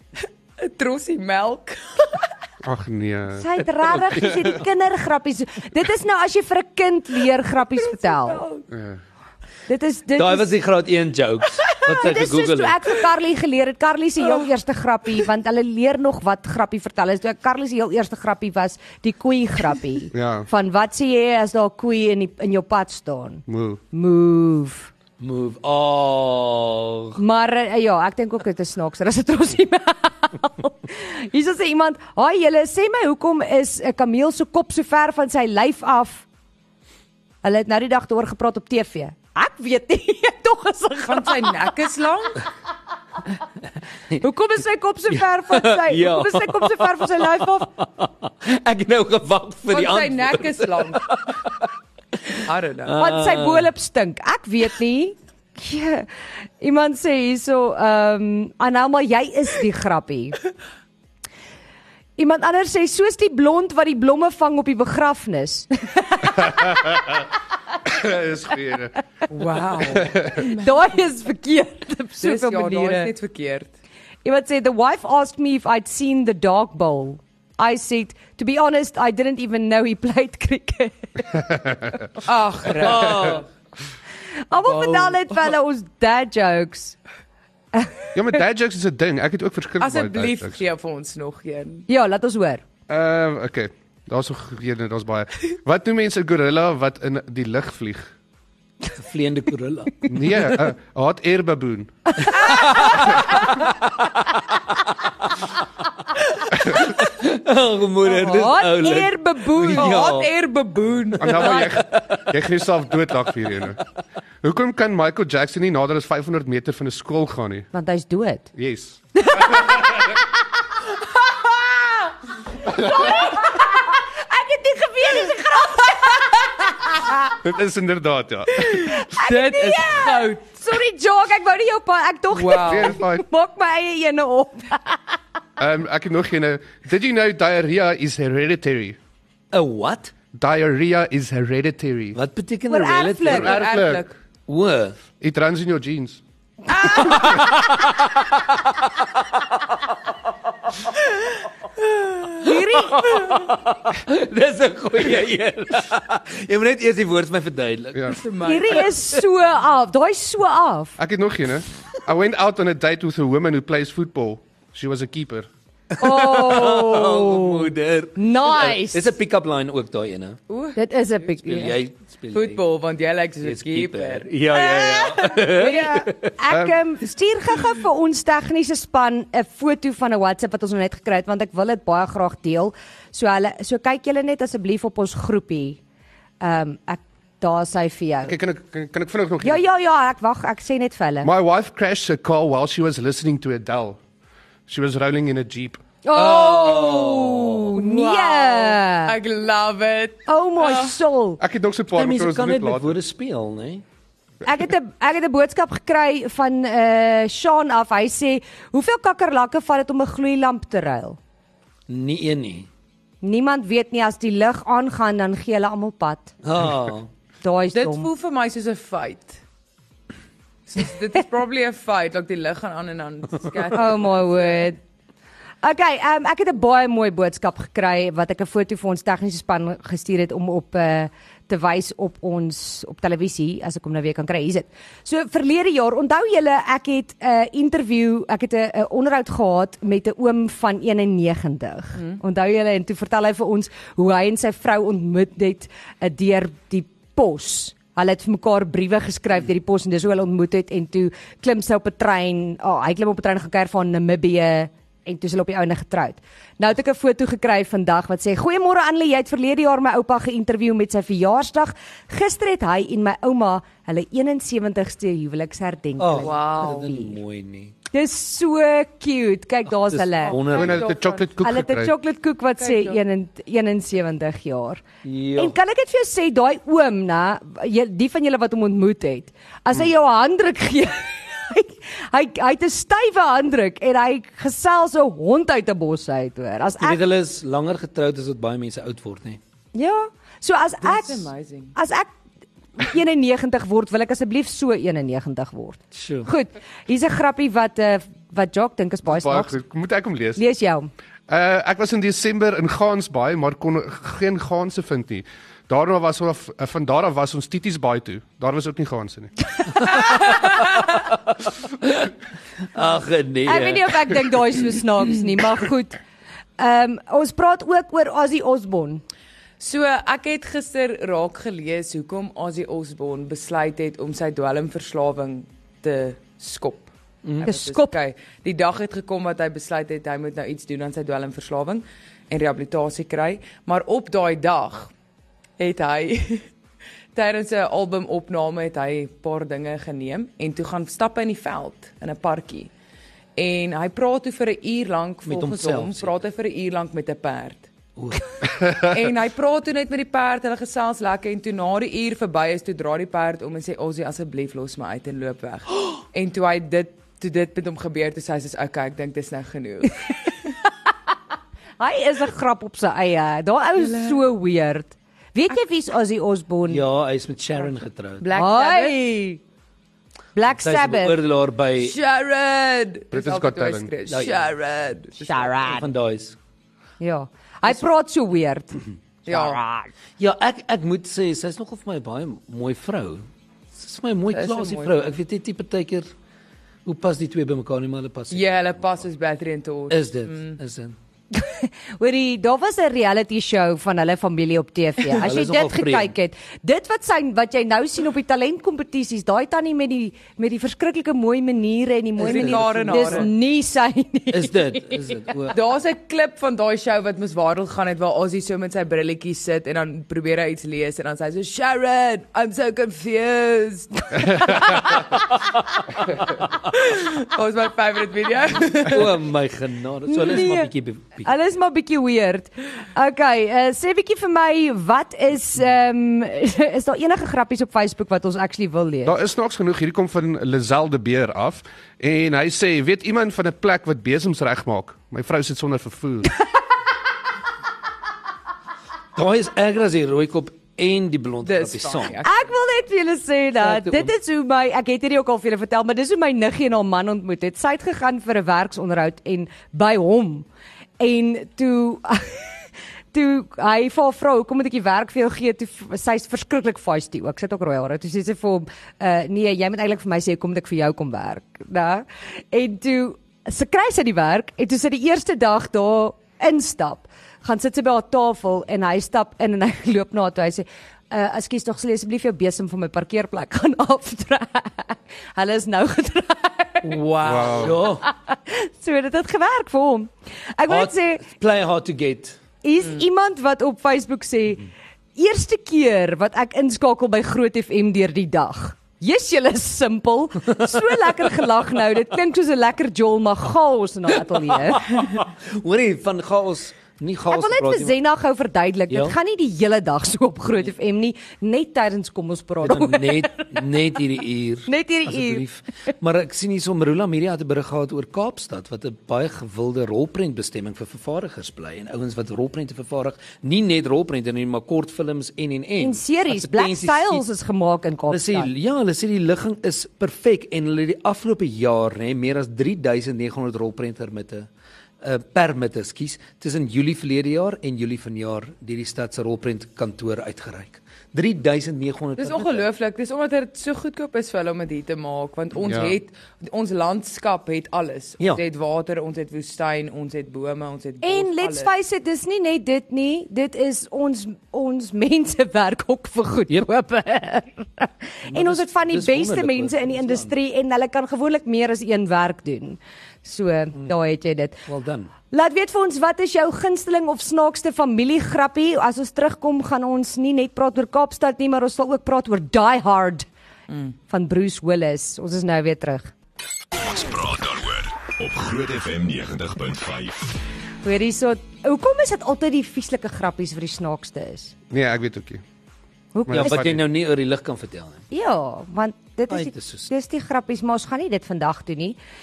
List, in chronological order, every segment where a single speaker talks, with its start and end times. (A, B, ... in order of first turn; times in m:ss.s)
0:00.6-0:02.3 A
0:02.6-0:04.5 B
0:03.3-0:08.4 C
0:07.8-0:08.6 A
0:08.7-0:09.0 B
0:09.7-0:10.5 C
0:10.2-0:12.8 D
0:11.8-0:24.9 C
0:20.1-0:20.5 B
0:23.5-0:23.8 B
0:25.2-0:27.2 D
0:27.2-0:36.2 C
0:37.4-0:41.6 C
0:41.0-0:42.4 A
0:44.2-0:47.7 C
0:45.1-0:51.5 D
0:49.7-0:51.1 A
0:52.2-0:53.7 D
0:52.4-0:53.0 A
0:52.9-0:56.1 C
0:56.6-1:00.4 C
1:02.2-1:07.0 C
1:06.4-1:07.3 B
1:07.8-1:08.9 B
1:09.3-1:11.0 A
1:09.9-1:10.4 B
1:10.3-1:13.1 C
1:12.2-1:13.7 A
1:14.2-1:21.8 C
1:22.2-1:23.4 A
1:22.8-1:23.4 D
1:24.5-1:27.0 C
1:24.6-1:25.2 A
1:27.7-1:28.1 C
1:28.1-1:30.6 B
1:29.8-1:31.9 A
1:31.9-1:32.6 C
1:32.9-1:38.1 B
1:38.9-1:40.2 D
1:40.1-1:42.3 B
1:42.2-1:43.4 C
1:42.3-1:44.6 D
1:46.6-1:50.3 D
1:48.0-1:50.1 C
1:49.7-1:51.7 A
1:51.2-1:53.8 B
1:51.4-1:52.3 D
1:54.4-1:57.7 B
1:57.7-1:58.5 C
1:58.5-1:59.8 B
1:59.2-2:00.0 C
2:02.6-2:07.1 C
2:02.7-2:03.1 B
2:07.4-2:08.9 B
2:08.8-2:10.4 A
2:08.8-2:15.0 C
2:12.3-2:13.0 A
2:12.7-2:13.2 B
2:15.6-2:19.0 B
2:19.5-2:20.1 D
2:20.3-2:22.2 B
2:22.1-2:23.6 D
2:22.7-2:23.5 C
2:23.2-2:24.0 B
2:23.3-2:24.1 A
2:24.5-2:25.0 D
2:25.2-2:26.2 B
2:26.7-2:27.5 A
2:26.8-2:29.1 D
2:32.4-2:33.1 C
2:32.4-2:39.0 D
2:38.1-2:38.9 A
2:38.4-2:41.0 C
2:41.0-2:45.5 B
2:45.9-2:50.4 D
2:46.0-2:49.1 C
2:50.5-2:50.8 A
2:50.8-2:51.8 C
2:51.3-2:52.6 D
2:52.3-2:55.9 A
2:53.4-2:56.3 D
2:54.6-3:05.8 C
2:56.5-2:56.8 B
3:06.4-3:08.4 C
3:08.2-3:09.6 B
3:09.4-3:11.3 C
3:11.2-3:14.0 B
3:14.7-3:15.8 B
3:16.0-3:19.2 C
3:16.1-3:17.7 D
3:17.7-3:20.9 A
3:20.2-3:21.4 C
3:21.4-3:23.0 B
3:21.9-3:23.8 D
3:24.4-3:31.2 C
3:31.9-3:32.7 D
3:33.2-3:36.3 C
3:36.4-3:37.1 D
3:37.4-3:38.1 C
3:37.7-3:39.4 A
3:40.7-3:44.7 A
3:43.7-3:44.8 C
3:45.6-4:27.2 C
4:26.0-4:27.7 D
4:26.2-4:26.9 A
4:27.9-4:30.6 C
4:29.8-4:30.9 D
4:30.2-4:31.3 A
4:30.5-4:31.9 B
4:31.4-4:34.8 C
4:32.6-4:33.0 A
4:35.0-4:35.5 D
4:35.4-4:47.0 C
4:46.8-4:49.4 D
4:49.7-4:52.1 C
4:50.8-4:51.7 A
4:52.8-4:59.5 C
4:55.9-4:56.3 D
4:59.0-5:00.4 B
5:00.4-5:00.9 C
5:01.3-5:09.3 B
5:09.9-5:10.4 D
5:10.9-5:12.1 D
5:12.7-5:14.6 D
5:13.4-5:16.0 C
5:16.6-5:19.0 C
5:19.6-5:34.9 A
5:27.4-5:27.9 C
5:35.6-5:36.5 A
5:37.1-5:42.7 A
5:43.4-5:47.7 A
5:45.2-5:46.2 D
5:48.0-5:48.3 D
5:48.8-6:00.0 A
6:01.8-6:06.8 C
6:03.8-6:04.2 A
6:06.7-6:08.3 D
6:08.2-6:09.0 A
6:08.3-6:09.4 C
6:10.3-6:11.2 C
6:10.6-6:12.0 D
6:11.8-6:15.5 A
6:13.1-6:13.9 B
6:14.1-6:14.5 D
6:15.2-6:15.9 C
6:15.5-6:16.4 D
6:17.0-6:19.9 C
6:19.2-6:19.6 A
6:20.2-6:26.1 D
6:24.3-6:25.0 A
6:26.8-6:28.8 D
6:28.3-6:30.6 A
6:29.9-6:30.9 D
6:31.3-6:45.1 C
6:35.1-6:36.1 D
6:42.2-6:43.3 A
6:42.4-6:43.3 D
6:44.3-6:45.6 D
6:45.5-6:55.2 A
6:56.7-6:59.2 A
6:58.8-7:01.3 D
7:00.1-7:09.2 C
7:09.0-7:16.3 B
7:19.1-7:22.2 D
7:21.4-7:22.3 A
7:22.2-7:30.5 C
7:23.6-7:24.1 D
7:31.0-7:32.5 C
7:33.1-7:57.0 C
7:56.8-7:57.7 A
7:57.2-7:57.8 B
7:57.3-7:58.1 D
7:57.8-8:01.2 C
8:00.7-8:02.4 D
8:02.6-8:14.9 C
8:14.7-8:17.9 D
8:17.3-8:23.6 C
8:18.9-8:19.1 D
8:22.6-8:37.2 D
8:24.7-8:25.4 C
8:35.8-8:38.5 C
8:38.1-8:44.5 D
8:45.0-8:52.6 D
8:52.2-9:01.7 A
8:55.6-8:56.0 B
9:01.0-9:14.7 C
9:08.3-9:10.3 D
9:14.7-9:15.1 D
9:15.3-9:23.2 C
9:23.7-9:23.9 A
9:24.1-9:26.1 C
9:26.8-9:30.3 E
9:30.8-9:34.5 C
9:34.7-9:35.4 B
9:36.1-9:36.6 C
9:36.2-9:36.8 B
9:36.3-9:38.0 D
9:38.1-9:42.0 C
9:39.3-9:39.9 D